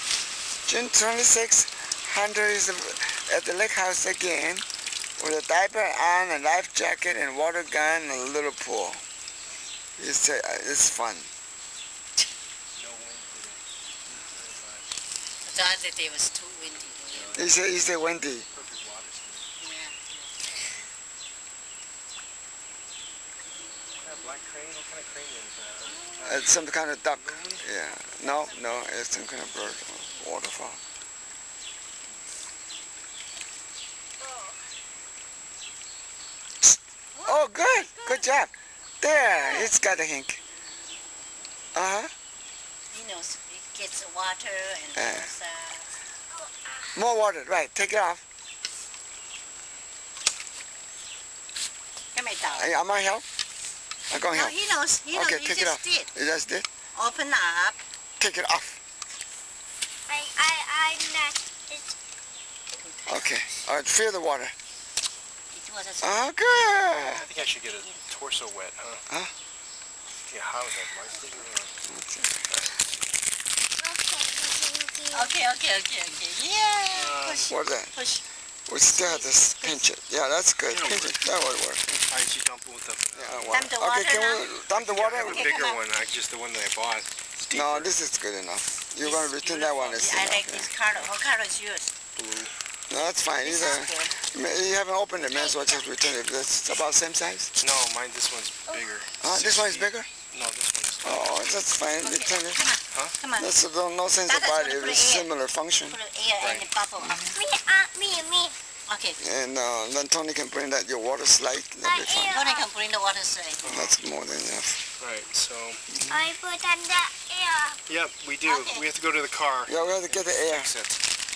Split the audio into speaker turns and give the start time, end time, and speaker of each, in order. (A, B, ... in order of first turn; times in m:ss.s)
0:00.6-0:04.6 A
0:05.2-0:09.0 A
0:10.0-0:11.3 A
0:12.7-0:14.9 B
0:15.4-0:17.5 C
0:17.1-0:19.5 B
0:17.3-0:18.5 A
0:19.6-0:20.8 C
0:24.0-0:27.7 B
0:25.8-0:26.4 C
0:26.2-0:30.8 A
0:27.9-0:28.9 C
0:34.2-0:34.6 D
0:37.1-0:38.2 C
0:37.2-0:40.4 A
0:39.3-0:39.7 D
0:41.7-0:42.1 A
0:42.9-0:45.9 C
0:44.9-0:45.3 A
0:46.3-0:46.9 D
0:46.9-0:48.2 A
0:52.1-0:52.7 C
0:52.5-0:53.2 A
0:54.1-0:54.5 A
0:54.3-0:56.1 C
0:55.1-0:56.7 A
0:56.9-0:57.8 C
0:58.2-0:58.8 A
1:00.1-1:01.9 D
1:02.8-1:03.4 C
1:03.1-1:04.5 A
1:05.5-1:08.0 C
1:06.0-1:07.2 A
1:07.0-1:09.0 B
1:10.3-1:11.8 B
1:11.9-1:12.4 A
1:12.4-1:13.0 B
1:13.8-1:15.3 D
1:15.1-1:18.2 C
1:16.9-1:17.5 B
1:17.4-1:17.9 A
1:18.7-1:22.0 A
1:19.0-1:19.8 C
1:20.7-1:21.3 B
1:22.1-1:23.6 B
1:23.1-1:25.4 A
1:23.5-1:24.5 C
1:24.6-1:27.9 B
1:25.2-1:25.8 C
1:27.5-1:30.7 A
1:29.0-1:31.9 C
1:32.1-1:32.5 B
1:32.9-1:37.6 A
1:32.9-1:34.1 C
1:35.3-1:35.9 D
1:37.6-1:41.5 B
1:39.2-1:40.1 A
1:41.0-1:42.7 A
1:42.0-1:43.5 C
1:43.3-1:46.0 A
1:44.3-1:45.3 C
1:45.9-1:47.4 C
1:46.4-1:46.7 B
1:47.3-1:48.6 D
1:48.9-1:49.2 C
1:49.2-1:52.4 A
1:51.8-1:52.7 D
1:52.3-1:53.6 C
1:53.6-1:54.0 B
1:53.6-1:54.8 A
1:55.0-1:56.1 B
1:56.1-1:57.8 D
1:57.9-2:01.0 B
1:58.4-1:58.9 C
1:59.7-2:00.7 A